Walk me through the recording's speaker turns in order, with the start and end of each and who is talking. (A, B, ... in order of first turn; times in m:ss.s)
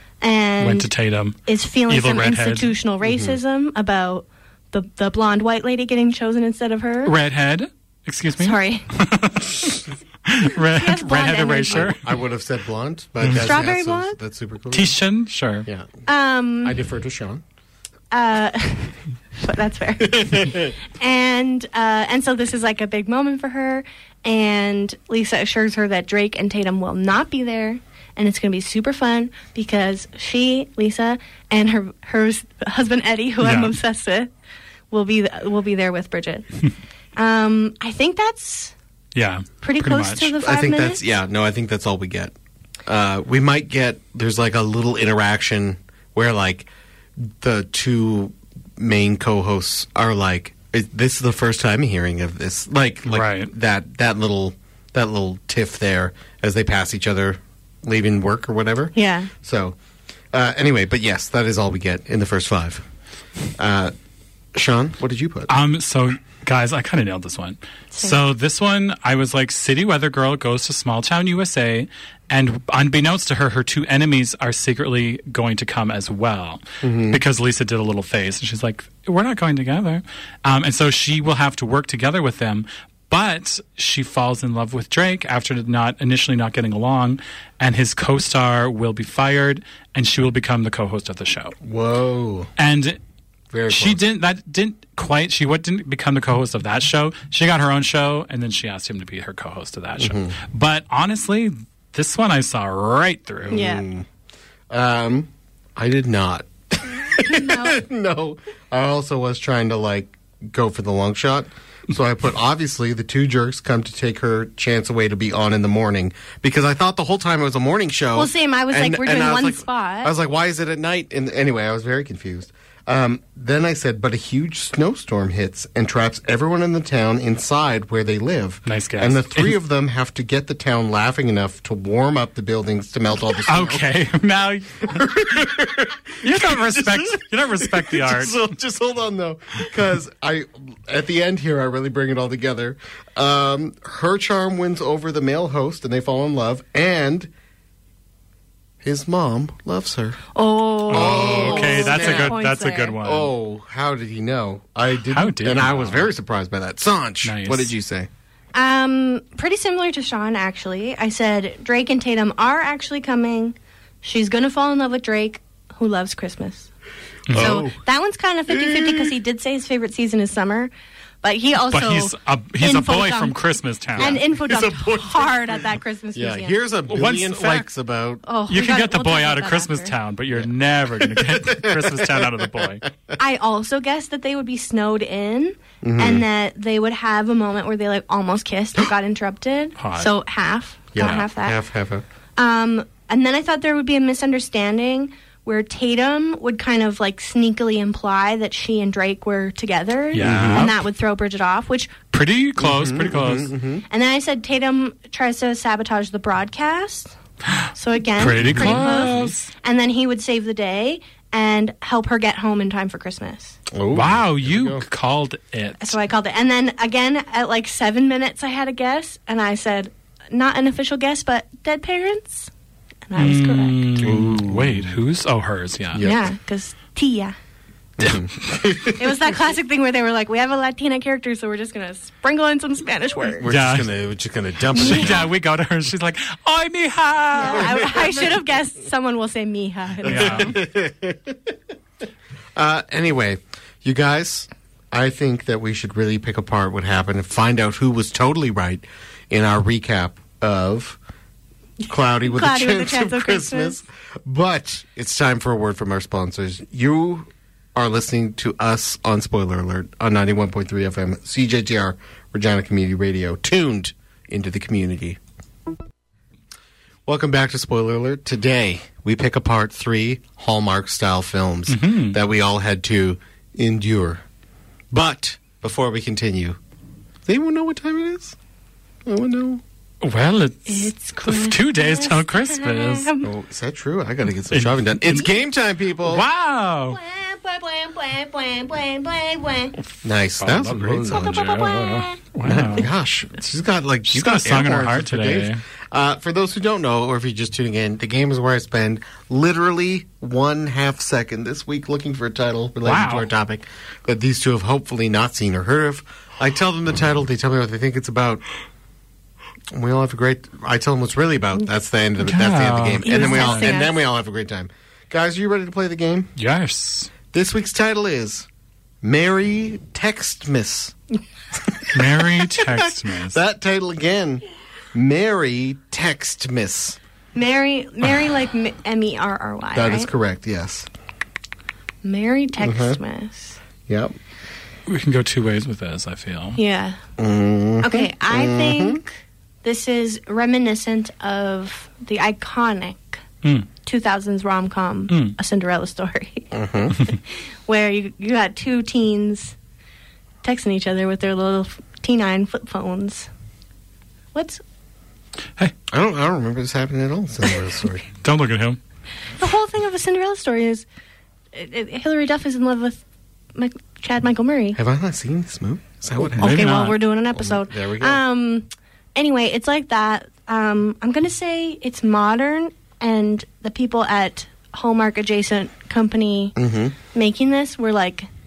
0:00.2-0:00.9 A
0:00.6-0:02.7 B
0:01.5-0:07.1 A
0:03.0-0:03.4 C
0:07.0-0:12.0 B
0:08.4-0:08.9 A
0:10.6-0:12.0 A
0:11.7-0:15.0 C
0:13.2-0:13.5 B
0:13.4-0:14.2 A
0:14.7-0:15.7 B
0:15.7-0:16.0 C
0:16.1-0:16.8 A
0:16.6-0:17.4 C
0:18.1-0:34.3 A
0:20.1-0:20.7 C
0:33.4-0:33.8 B
0:34.9-0:36.5 A
0:37.2-0:38.7 A
0:39.2-0:40.3 B
0:39.6-0:41.0 A
0:40.4-0:42.3 C
0:42.9-0:46.7 C
0:47.2-0:59.8 C
0:53.1-0:53.5 B
0:59.0-0:59.3 A
1:00.3-1:02.9 C
1:03.6-1:03.9 C
1:04.6-1:05.5 C
1:05.5-1:31.6 B
1:16.8-1:17.2 C
1:31.6-1:32.5 C
1:32.6-1:33.0 B
1:33.5-1:34.0 C
1:33.7-1:43.7 B
1:40.0-1:40.3 C
1:43.5-1:44.1 C
1:43.5-1:43.8 A
1:44.7-2:13.8 C
1:47.2-1:47.8 A
1:58.2-2:00.1 A
2:08.7-2:09.6 B
2:13.4-2:15.0 B
2:14.8-2:27.3 C
2:16.2-2:18.4 B
2:28.8-2:30.2 C
2:30.3-2:33.0 A
2:30.9-2:32.4 C
2:30.9-2:33.3 B
2:33.0-2:38.1 C
2:35.1-2:36.1 B
2:37.2-2:37.7 B
2:38.5-2:46.7 A
2:47.3-2:47.7 B
2:47.3-2:47.8 C
2:47.3-2:50.7 A
2:48.5-2:49.1 C
2:51.2-2:53.4 A
2:51.7-2:54.2 B
2:54.0-2:56.6 A
2:54.0-2:58.2 C
2:56.9-2:57.7 B
2:58.2-3:00.0 A
2:58.5-3:02.8 B
3:00.4-3:03.2 C
3:03.2-3:11.6 A
3:05.8-3:06.2 C
3:09.8-3:10.1 B
3:10.9-3:12.0 C
3:11.0-3:11.3 B
3:12.4-3:22.0 A
3:20.1-3:20.8 B
3:20.2-3:20.7 C
3:22.1-3:23.5 B
3:22.6-3:23.8 C
3:23.9-3:27.2 A
3:27.7-3:33.6 A
3:28.2-3:29.5 B
3:28.4-3:29.3 C
3:33.7-3:34.8 C
3:33.9-3:36.0 B
3:35.8-3:42.5 A
3:43.1-3:43.9 A
3:43.2-3:46.0 B
3:44.0-3:45.0 C
3:45.9-3:46.3 C
3:46.0-3:47.4 A
3:48.0-3:49.2 C
3:48.8-3:53.5 A
3:53.4-3:55.3 C
3:53.5-3:53.9 B
3:54.7-3:58.2 B
3:54.8-3:55.3 A
3:57.4-4:00.6 A
3:57.4-3:58.2 C
4:00.0-4:00.6 B
4:00.1-4:01.6 C
4:02.6-4:11.0 C
4:11.9-4:25.2 C
4:12.2-4:13.8 A
4:27.1-4:34.2 C
4:31.7-4:32.2 B
4:34.9-4:36.6 C
4:37.3-4:38.4 C
4:39.1-4:39.6 C
4:40.0-4:43.1 B
4:40.7-4:43.3 A
4:43.2-4:46.3 C
4:44.5-4:45.3 B
4:46.0-4:47.0 B
4:46.9-4:49.8 A
4:50.0-4:51.5 C
4:50.4-4:52.9 B
4:51.1-4:52.2 A
4:52.4-5:08.4 C
4:54.1-4:55.6 B
5:02.8-5:03.3 B
5:09.7-5:16.3 C
5:12.2-5:13.8 B
5:13.0-5:14.0 A
5:16.4-5:17.1 B
5:17.3-5:18.5 C
5:19.0-5:21.0 C
5:21.5-5:24.4 C
5:21.9-5:23.4 B
5:24.9-5:27.0 C
5:27.4-5:30.1 A
5:29.8-5:30.9 C
5:32.0-5:33.6 A
5:32.6-5:33.0 C
5:33.9-5:34.1 C
5:34.9-5:36.6 B
5:36.6-5:37.0 A
5:37.2-5:39.0 C
5:37.8-5:39.1 A
5:39.6-5:43.2 A
5:43.8-5:49.6 A
5:45.1-5:45.4 B
5:46.5-5:47.0 C
5:50.4-5:53.3 A
5:54.3-5:54.6 A
5:55.9-5:58.1 C
5:58.2-5:58.8 B
5:59.4-6:00.9 A
6:01.5-6:03.0 A
6:03.6-6:04.8 A
6:04.8-6:06.6 C
6:06.4-6:07.0 B
6:06.4-6:16.6 A
6:07.3-6:08.2 C
6:16.6-6:17.0 C
6:17.1-6:18.3 A